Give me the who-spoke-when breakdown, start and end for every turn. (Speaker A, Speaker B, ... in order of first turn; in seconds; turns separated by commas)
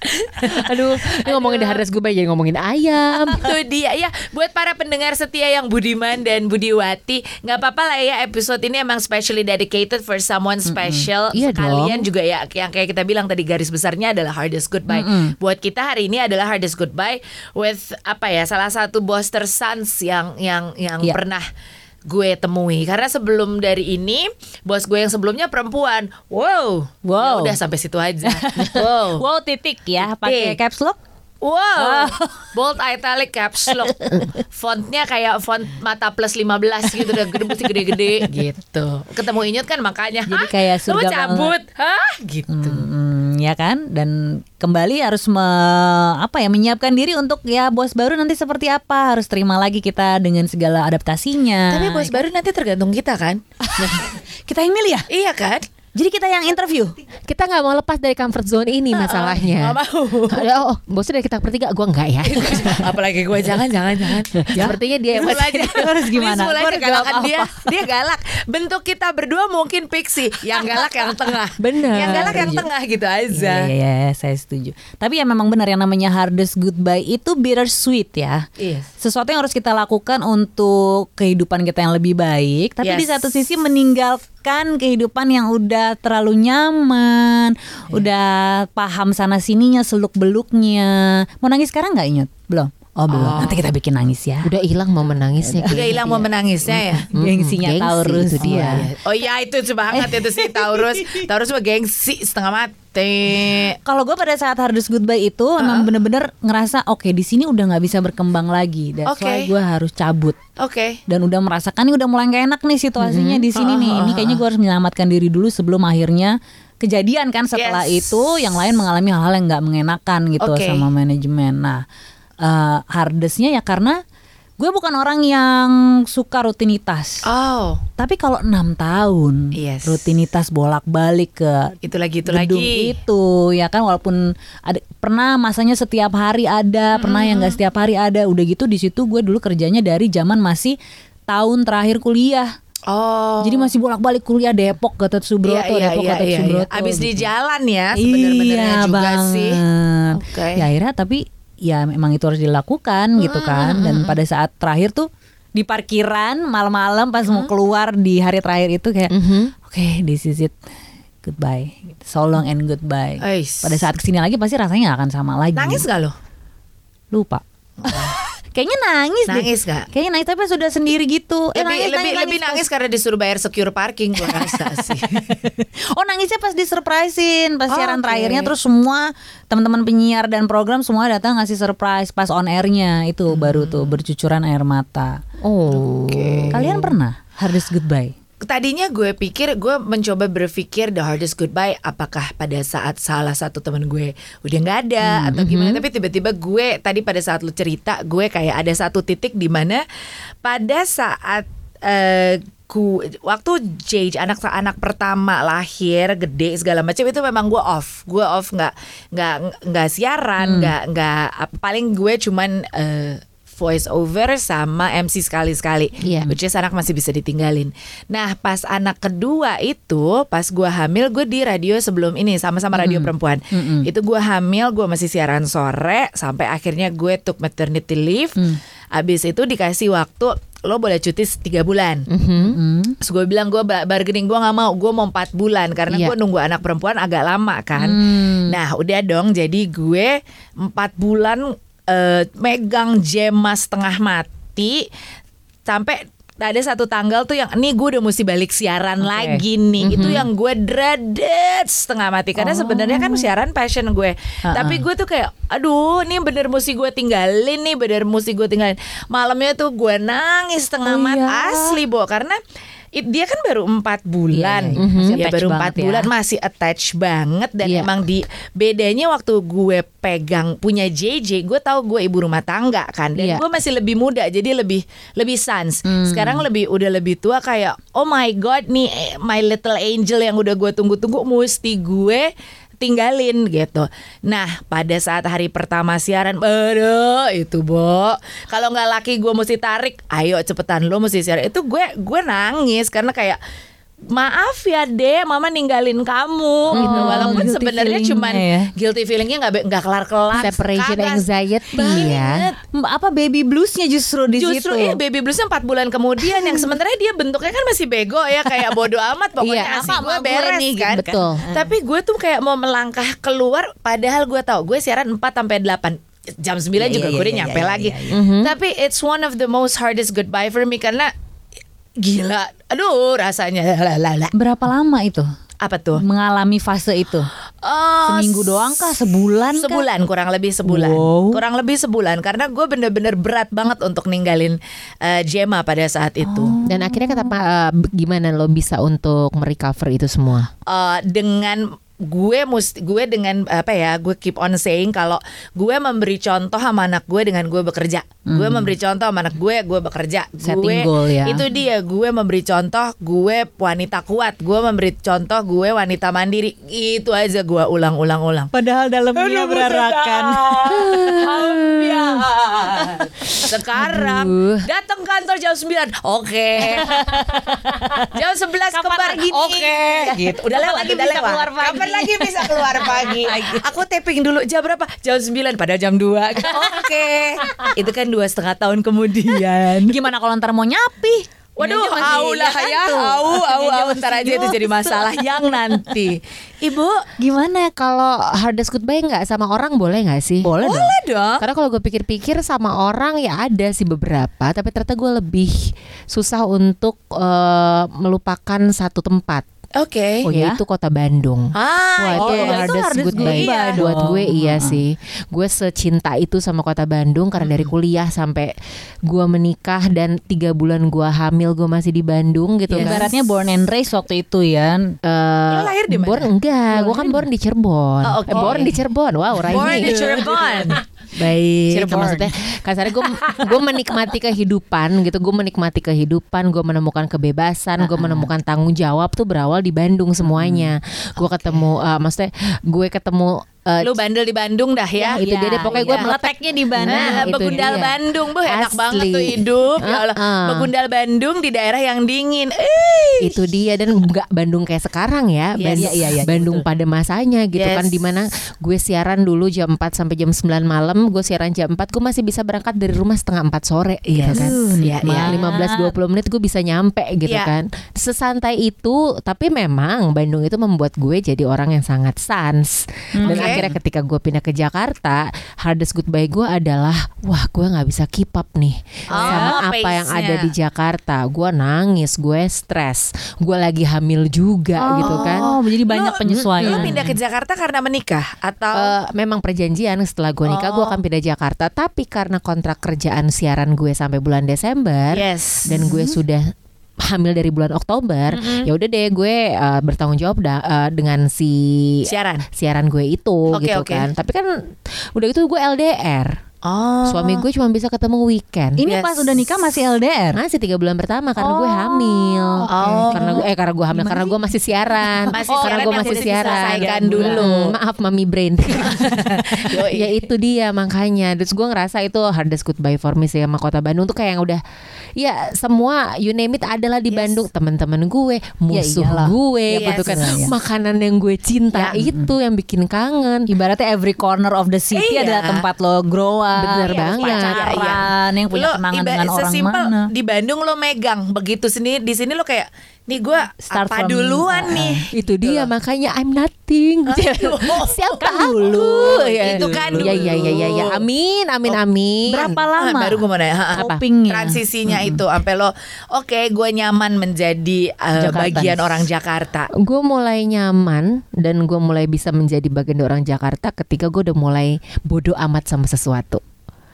Speaker A: 0.4-3.4, Speaker B: 1.1-1.8, Speaker B: 3.4-21.5, Speaker C: 10.7-11.1, Speaker A: 11.3-12.1, Speaker C: 14.9-15.3, Speaker B: 22.1-29.2, Speaker C: 27.0-27.6, Speaker C: 28.2-31.0, Speaker B: 30.2-30.6, Speaker B: 31.4-42.8, Speaker C: 31.8-32.5, Speaker C: 33.7-34.3, Speaker C: 37.0-38.3, Speaker C: 40.3-41.5, Speaker C: 42.5-52.1, Speaker B: 51.7-53.4, Speaker C: 53.6-55.1, Speaker B: 55.1-55.7, Speaker C: 55.9-56.9, Speaker A: 57.3-59.8, Speaker B: 58.9-60.5, Speaker A: 60.3-62.9, Speaker B: 62.2-73.7, Speaker C: 64.5-67.7, Speaker A: 64.5-65.7, Speaker A: 71.6-72.5, Speaker C: 72.0-72.7, Speaker C: 73.3-78.5, Speaker B: 78.6-78.9, Speaker C: 79.0-94.5, Speaker B: 82.8-83.3, Speaker B: 93.1-93.6, Speaker A: 94.4-98.9, Speaker B: 95.7-97.1, Speaker C: 97.1-98.8, Speaker B: 98.4-103.8, Speaker C: 100.0-101.2, Speaker C: 103.8-110.4, Speaker B: 105.6-105.9, Speaker B: 109.0-109.5, Speaker B: 110.6-111.0, Speaker C: 111.1-121.8, Speaker A: 113.0-113.4, Speaker B: 113.5-114.4, Speaker B: 117.5-118.5, Speaker B: 120.4-120.8, Speaker C: 122.4-124.0, Speaker C: 124.6-127.2, Speaker B: 127.2-127.8, Speaker C: 128.0-140.8, Speaker B: 129.5-130.0, Speaker B: 131.8-132.9, Speaker B: 136.9-137.6, Speaker C: 141.3-142.5, Speaker B: 142.9-143.7, Speaker C: 143.4-147.3, Speaker B: 145.4-149.6, Speaker C: 147.9-160.6, Speaker B: 150.1-150.6, Speaker B: 153.2-154.2, Speaker B: 157.2-157.5, Speaker A: 159.1-159.5, Speaker C: 161.2-165.8, Speaker B: 163.2-163.8, Speaker B: 165.6-166.1, Speaker C: 167.1-172.6, Speaker B: 167.8-168.2, Speaker B: 169.3-169.9, Speaker B: 171.5-175.3, Speaker C: 174.2-185.2, Speaker B: 177.7-178.5, Speaker B: 183.3-183.9, Speaker A: 185.4-186.9, Speaker B: 185.9-186.7, Speaker C: 186.5-188.1, Speaker B: 188.4-199.8, Speaker A: 195.0-195.8, Speaker B: 200.4-228.4, Speaker C: 210.4-210.7, Speaker A: 216.0-216.3, Speaker C: 216.1-216.3, Speaker C: 222.7-223.9, Speaker B: 228.9-232.1, Speaker A: 232.1-232.6, Speaker C: 232.4-233.0, Speaker B: 233.0-244.8, Speaker A: 235.9-236.1, Speaker C: 237.8-238.5, Speaker B: 245.7-262.4, Speaker C: 249.0-249.4, Speaker A: 249.8-250.3, Speaker C: 252.4-253.3, Speaker C: 254.4-254.8, Speaker C: 260.8-261.7, Speaker B: 262.9-282.3, Speaker C: 264.3-266.1, Speaker A: 264.8-265.2, Speaker A: 267.6-267.9, Speaker A: 273.1-273.4, Speaker C: 275.9-276.4, Speaker B: 282.8-293.4, Speaker B: 294.1-302.6, Speaker A: 296.7-297.4, Speaker C: 296.7-298.7, Speaker A: 300.3-302.5, Speaker C: 302.7-305.0, Speaker B: 304.4-321.1, Speaker A: 309.4-310.0, Speaker C: 309.7-311.7, Speaker A: 310.9-311.4, Speaker C: 316.8-318.2, Speaker A: 318.1-318.5, Speaker B: 322.0-324.3, Speaker C: 324.3-325.3, Speaker B: 325.6-326.0, Speaker C: 326.0-327.3, Speaker B: 327.6-328.9, Speaker C: 328.1-329.9, Speaker B: 329.6-336.6, Speaker C: 330.7-331.4, Speaker C: 336.2-337.3, Speaker A: 336.6-340.5, Speaker B: 340.7-358.5, Speaker C: 348.3-348.7, Speaker C: 350.4-351.4, Speaker C: 358.5-360.4, Speaker B: 359.1-366.9, Speaker A: 360.7-362.1, Speaker C: 363.0-363.4, Speaker A: 363.4-364.6, Speaker C: 366.6-368.1, Speaker B: 368.1-379.9, Speaker C: 368.7-373.6, Speaker C: 376.4-377.0, Speaker C: 379.8-385.9, Speaker B: 381.6-387.0, Speaker C: 387.2-387.7, Speaker A: 387.8-390.6, Speaker C: 390.4-390.9, Speaker B: 390.6-391.4, Speaker A: 391.4-399.4, Speaker B: 399.8-400.2, Speaker C: 400.2-400.6, Speaker A: 400.3-408.5, Speaker B: 401.5-404.1, Speaker C: 402.0-404.8, Speaker A: 409.1-413.1, Speaker B: 412.7-413.1, Speaker C: 412.8-415.0, Speaker A: 415.0-420.2, Speaker B: 415.5-416.3, Speaker C: 416.7-417.2, Speaker B: 418.0-418.8, Speaker C: 418.3-418.7, Speaker B: 419.4-422.3, Speaker C: 419.5-420.8, Speaker A: 421.7-433.9, Speaker C: 427.8-428.3, Speaker C: 430.4-430.7, Speaker B: 433.8-436.1, Speaker A: 435.0-440.7, Speaker C: 435.1-437.8, Speaker B: 436.9-443.5, Speaker A: 443.2-475.4, Speaker B: 445.6-445.9, Speaker C: 445.8-446.6, Speaker B: 447.5-448.1, Speaker B: 454.1-455.4, Speaker C: 454.3-455.9, Speaker B: 457.2-457.5, Speaker C: 463.2-463.7, Speaker B: 463.2-463.6, Speaker B: 469.1-470.5, Speaker C: 469.1-469.6, Speaker C: 474.8-477.0, Speaker B: 475.0-478.9, Speaker A: 476.3-477.1, Speaker A: 478.7-496.4, Speaker B: 480.4-481.0, Speaker B: 485.1-486.1, Speaker B: 488.3-488.7, Speaker B: 492.1-492.4, Speaker B: 493.5-494.1, Speaker B: 496.6-497.4, Speaker A: 497.1-498.8, Speaker C: 498.8-500.4, Speaker B: 498.9-499.4, Speaker A: 500.3-514.6, Speaker C: 501.4-504.2, Speaker B: 502.7-503.4, Speaker C: 505.1-507.6, Speaker B: 505.3-507.7, Speaker B: 508.8-510.3, Speaker A: 515.2-523.5, Speaker B: 517.1-517.4, Speaker C: 518.7-520.5, Speaker B: 519.7-520.4, Speaker B: 521.7-522.0, Speaker C: 521.9-522.3, Speaker C: 523.5-530.1, Speaker B: 524.9-525.6, Speaker A: 526.6-527.6, Speaker B: 526.9-535.7, Speaker C: 533.6-535.0, Speaker A: 535.1-542.6, Speaker B: 537.0-541.0, Speaker C: 538.2-540.7, Speaker C: 542.3-543.2, Speaker B: 542.8-549.7, Speaker C: 543.7-545.2, Speaker A: 543.8-544.0, Speaker C: 548.2-549.0, Speaker A: 549.8-556.4